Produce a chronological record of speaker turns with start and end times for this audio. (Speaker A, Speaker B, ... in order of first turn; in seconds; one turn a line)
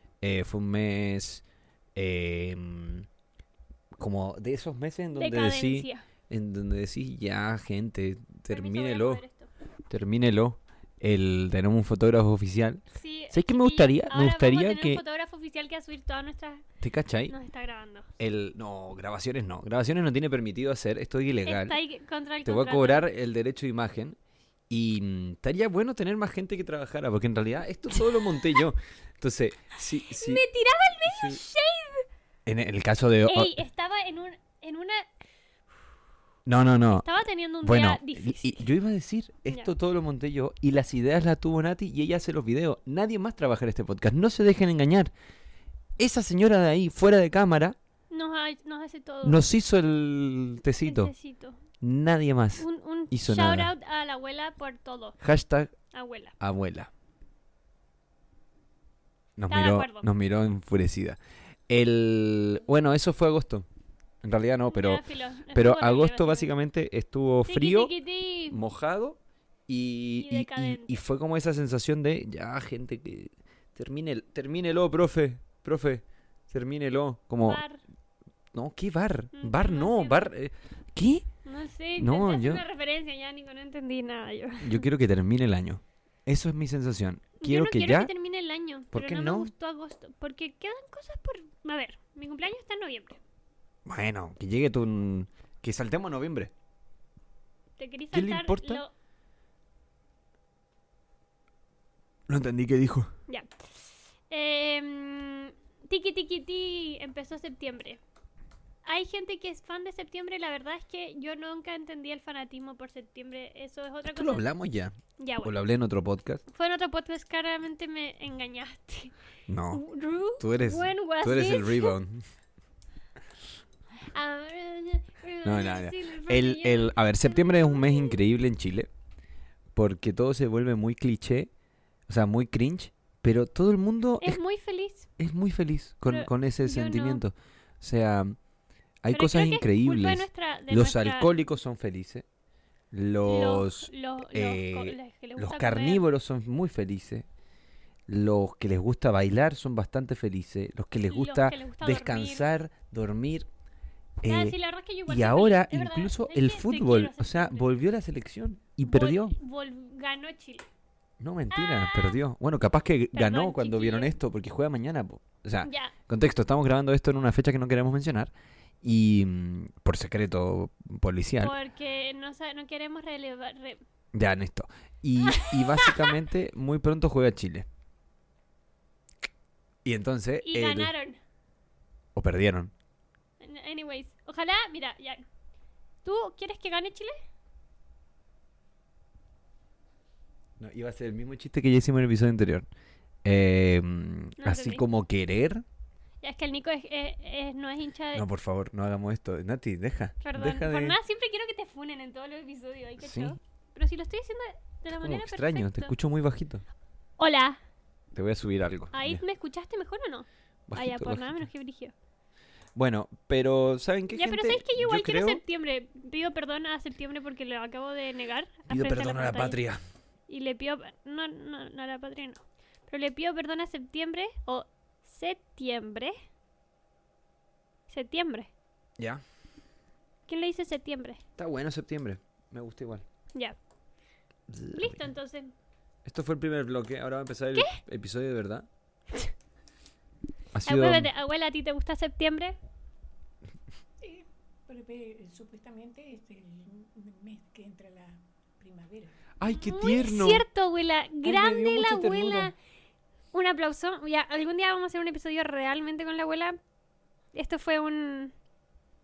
Speaker A: 0.2-1.4
Speaker A: 1.9-3.1
Speaker A: 4.0-9.2
Speaker B: 5.2-6.0
Speaker B: 8.5-9.5
Speaker A: 9.9-15.0
Speaker B: 12.9-16.6
Speaker A: 16.8-17.3
Speaker B: 17.3-18.1
Speaker A: 18.2-21.8
Speaker B: 21.4-23.1
Speaker A: 22.4-24.2
Speaker A: 24.7-30.4
Speaker B: 30.1-32.1
Speaker A: 31.1-31.4
Speaker A: 32.5-33.6
Speaker B: 33.3-35.0
Speaker A: 36.5-37.1
Speaker B: 36.9-38.7
Speaker A: 37.6-45.1
Speaker B: 39.5-39.7
Speaker A: 46.0-47.8
Speaker B: 48.1-49.4
Speaker A: 49.2-51.1
Speaker B: 50.8-51.6
Speaker A: 51.8-53.7
Speaker B: 52.6-55.2
Speaker A: 55.2-55.7
Speaker B: 55.9-56.4
Speaker A: 56.4-56.9
Speaker A: 59.4-61.2
Speaker B: 59.5-60.1
Speaker A: 61.7-63.7
Speaker A: 64.2-67.9
Speaker B: 64.7-66.5
Speaker B: 67.5-68.6
Speaker A: 68.5-77.6
Speaker B: 70.2-71.0
Speaker B: 77.4-77.8
Speaker A: 78.5-81.3
Speaker B: 79.3-80.3
Speaker B: 81.5-84.9
Speaker A: 82.0-82.6
Speaker A: 84.6-88.1
Speaker B: 87.4-93.2
Speaker A: 88.9-89.5
Speaker A: 93.8-96.5
Speaker B: 97.8-98.9
Speaker A: 98.1-98.8
Speaker A: 102.3-103.1
Speaker B: 103.3-108.0
Speaker B: 108.8-114.5
Speaker A: 114.0-116.4
Speaker B: 115.2-115.5
Speaker B: 116.5-119.1
Speaker A: 119.5-119.8
Speaker B: 119.7-122.0
Speaker A: 120.4-122.2
Speaker B: 124.0-128.2
Speaker A: 125.4-128.9
Speaker A: 129.7-131.5
Speaker A: 132.1-134.4
Speaker B: 134.2-135.1
Speaker A: 135.2-138.4
Speaker B: 136.1-137.2
Speaker A: 139.0-142.3
Speaker B: 139.1-141.3
Speaker A: 142.9-147.3
Speaker B: 143.3-146.0
Speaker A: 148.1-153.5
Speaker B: 151.1-152.5
Speaker A: 154.2-159.3
Speaker B: 154.2-157.7
Speaker B: 158.8-160.7
Speaker A: 161.2-171.6
Speaker B: 161.5-162.2
Speaker B: 163.1-164.1
Speaker B: 165.6-165.9
Speaker B: 171.4-173.8
Speaker A: 174.1-177.7
Speaker B: 175.2-176.1
Speaker A: 179.8-180.9
Speaker B: 180.4-181.2
Speaker A: 182.2-182.7
Speaker B: 183.4-185.2
Speaker B: 186.0-187.2
Speaker A: 190.6-192.7
Speaker A: 193.2-195.6
Speaker B: 194.4-194.8
Speaker B: 196.2-198.3
Speaker A: 198.1-201.0
Speaker B: 200.2-205.9
Speaker A: 203.0-203.4
Speaker A: 204.9-206.6
Speaker B: 207.2-207.6
Speaker A: 208.1-209.2
Speaker B: 208.9-211.9
Speaker A: 210.7-211.4
Speaker A: 212.8-215.4
Speaker B: 214.1-219.6
Speaker A: 218.7-219.8
Speaker B: 220.3-226.2
Speaker B: 227.9-228.5
Speaker B: 230.3-231.2
Speaker A: 231.4-233.1
Speaker A: 234.5-235.0
Speaker B: 234.7-235.5
Speaker A: 236.1-238.7
Speaker B: 237.5-237.8
Speaker A: 240.5-241.1
Speaker B: 240.7-242.6
Speaker C: 244.0-249.2
Speaker A: 249.4-250.5
Speaker B: 249.5-252.5
Speaker A: 251.2-252.5
Speaker B: 253.3-256.6
Speaker B: 257.3-258.3